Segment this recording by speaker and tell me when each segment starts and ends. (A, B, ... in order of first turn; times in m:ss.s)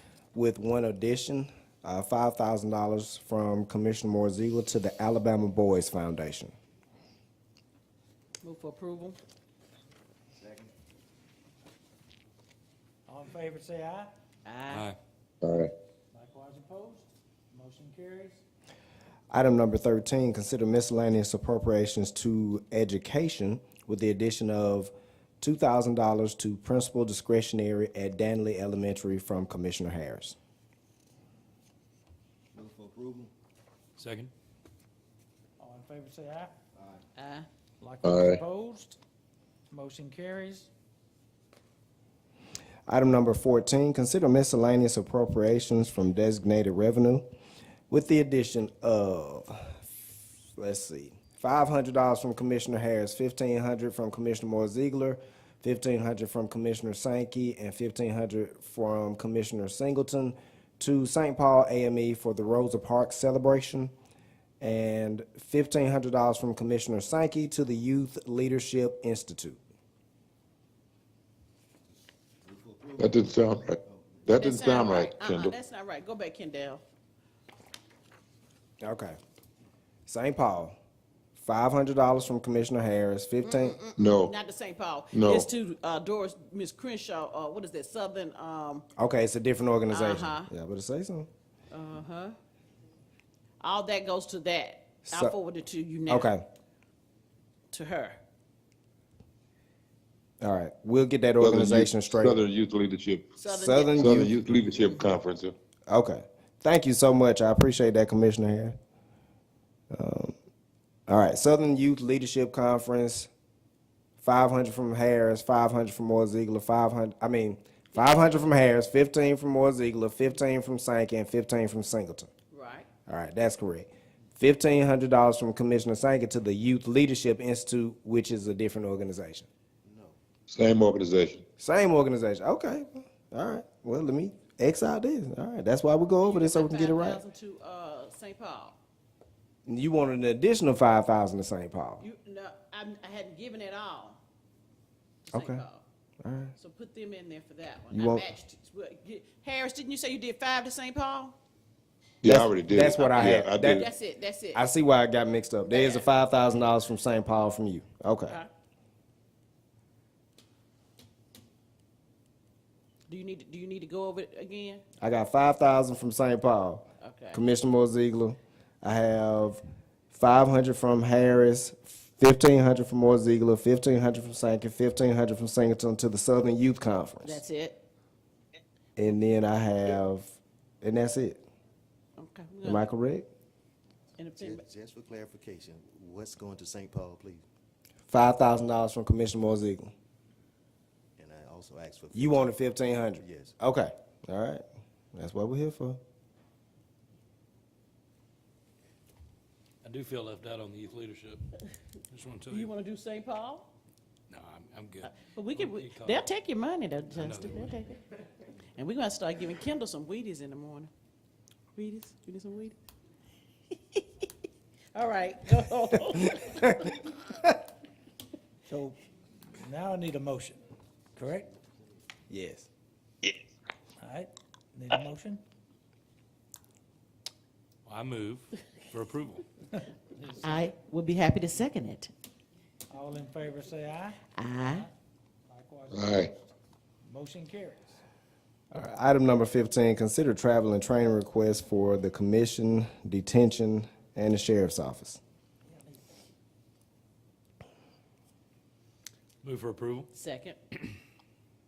0:00.3-0:06.5 A
0:08.4-0:09.2 B
0:13.1-0:14.1 C
0:14.4-0:14.9 B
0:14.7-0:15.0 D
0:15.4-0:15.7 E
0:16.1-0:18.4 C
0:19.3-0:30.4 A
0:32.6-0:33.3 F
0:34.0-0:34.3 D
0:35.6-0:36.5 C
0:37.2-0:37.5 B
0:37.8-0:39.0 C
0:38.0-0:38.4 E
0:39.7-0:40.7 C
0:42.9-0:47.3 A
0:47.9-0:50.0 A
0:50.5-1:03.9 A
1:04.6-1:09.6 A
1:12.5-1:13.2 F
1:13.0-1:15.5 E
1:14.4-1:16.8 B
1:18.8-1:19.2 A
1:20.1-1:20.8 A
1:21.4-1:23.8 A
1:23.4-1:28.8 B
1:24.0-1:24.3 E
1:25.1-1:25.5 E
1:29.0-1:31.3 A
1:29.9-1:30.5 B
1:31.7-1:32.3 B
1:33.6-1:36.3 B
1:35.0-1:35.3 A
1:36.1-1:36.4 A
1:37.7-1:38.2 B
1:40.4-1:42.4 A
1:41.4-1:43.3 E
1:43.4-1:45.2 B
1:43.5-1:44.3 A
1:44.0-1:45.5 E
1:45.9-1:48.8 A
1:49.9-1:50.3 A
1:51.1-1:53.3 A
1:54.2-2:02.3 A
2:02.5-2:02.9 B
2:03.1-2:09.5 A
2:09.9-2:10.2 F
2:10.5-2:11.4 E
2:11.6-2:17.2 A
2:16.2-2:18.8 B
2:19.6-2:22.0 A
2:22.0-2:24.2 B
2:25.2-2:25.8 B
2:25.3-2:25.6 A
2:26.2-2:26.5 A
2:26.6-2:31.3 B
2:27.9-2:28.3 A
2:32.2-2:33.9 E
2:32.2-2:33.8 A
2:32.9-2:34.6 B
2:34.5-2:38.4 A
2:35.7-2:36.1 B
2:43.1-2:44.8 B
2:45.0-2:57.4 A
2:47.0-2:47.4 B
2:57.2-2:57.8 B
2:59.0-3:01.4 A
3:02.2-3:02.9 B
3:02.6-3:03.3 A
3:04.2-3:04.6 B
3:04.4-3:07.4 F
3:08.1-3:09.9 A
3:11.2-3:12.6 F
3:12.1-3:14.6 A
3:13.2-3:13.5 F
3:15.1-3:16.0 A
3:19.8-3:21.5 D
3:22.1-3:22.7 D
3:22.5-3:23.7 B
3:24.3-3:26.3 D
3:25.0-3:28.0 B
3:27.1-3:27.7 D
3:28.8-3:30.9 B
3:31.7-3:32.8 B
3:34.9-3:37.0 B
3:38.6-3:39.0 C
3:39.6-3:40.6 C
3:41.1-3:41.5 C
3:42.3-3:42.7 A
3:44.0-3:45.4 C
3:47.8-3:49.4 D
3:50.4-3:52.1 B
3:52.9-3:54.9 C
3:54.3-3:54.8 B
3:55.5-3:56.5 C
3:55.9-3:56.3 E
3:57.0-3:58.0 C
3:58.7-4:05.2 A
4:09.4-4:10.1 D
4:10.1-4:10.6 B